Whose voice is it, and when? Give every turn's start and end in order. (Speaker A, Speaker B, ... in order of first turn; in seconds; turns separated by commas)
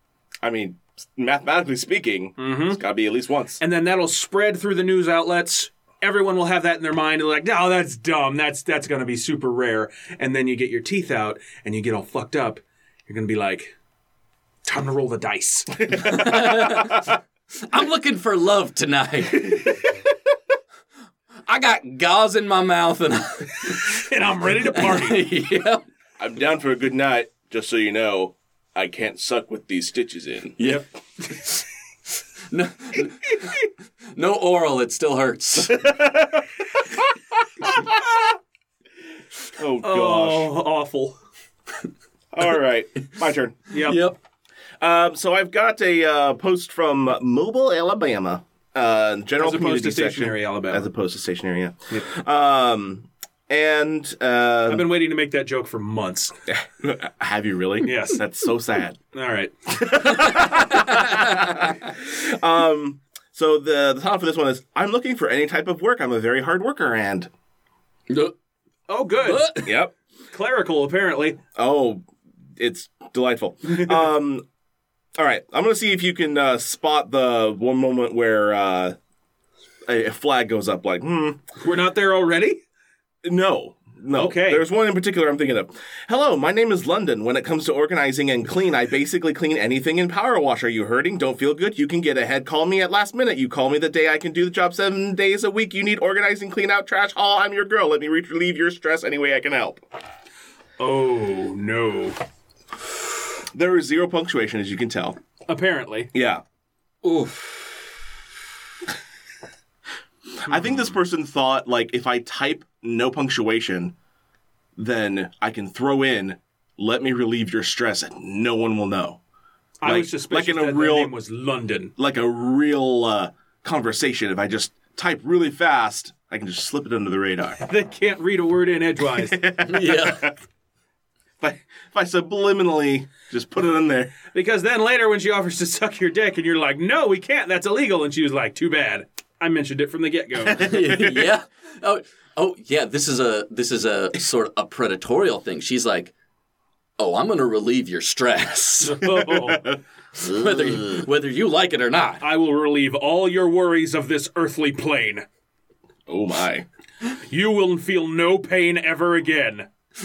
Speaker A: 0.4-3.6, Speaker B: 2.4-2.8, Speaker B: 3.6-13.8, Speaker B: 14.7-16.6, Speaker C: 15.9-19.9, Speaker C: 21.5-25.9, Speaker B: 23.7-25.2, Speaker A: 26.2-30.6, Speaker C: 30.6-31.6, Speaker C: 32.5-35.9, Speaker A: 35.7-36.4, Speaker A: 37.7-38.0, Speaker A: 39.6-40.5, Speaker B: 39.8-41.2, Speaker A: 42.3-43.7, Speaker B: 43.7-44.1, Speaker C: 43.8-44.2, Speaker A: 44.8-54.9, Speaker B: 49.4-50.9, Speaker B: 54.7-56.3, Speaker A: 56.5-59.0, Speaker B: 57.8-58.2, Speaker B: 59.1-60.4, Speaker A: 59.8-67.3, Speaker C: 60.5-61.8, Speaker C: 68.1-68.3, Speaker B: 68.9-69.6, Speaker C: 69.2-69.8, Speaker A: 69.6-69.9, Speaker B: 70.3-71.4, Speaker A: 71.6-72.0, Speaker A: 72.6-74.4, Speaker A: 75.2-79.0, Speaker A: 79.9-81.4, Speaker B: 81.6-82.6, Speaker A: 83.2-99.8, Speaker B: 84.1-84.7, Speaker B: 100.8-102.2, Speaker A: 103.5-105.2, Speaker B: 105.5-106.1, Speaker A: 106.1-106.4, Speaker C: 107.0-107.8, Speaker A: 110.4-113.9, Speaker B: 110.5-110.9, Speaker A: 114.8-119.2, Speaker B: 119.8-121.9, Speaker A: 119.8-121.1, Speaker A: 122.0-127.6, Speaker B: 127.6-129.4, Speaker A: 129.2-130.3, Speaker C: 129.6-130.3, Speaker A: 131.4-134.2, Speaker B: 134.3-140.7, Speaker A: 140.5-141.3, Speaker C: 140.5-146.1, Speaker C: 147.0-149.1, Speaker B: 148.8-149.8, Speaker A: 149.2-149.8, Speaker C: 150.2-152.2, Speaker B: 152.2-155.3, Speaker A: 156.1-156.7, Speaker B: 157.3-159.7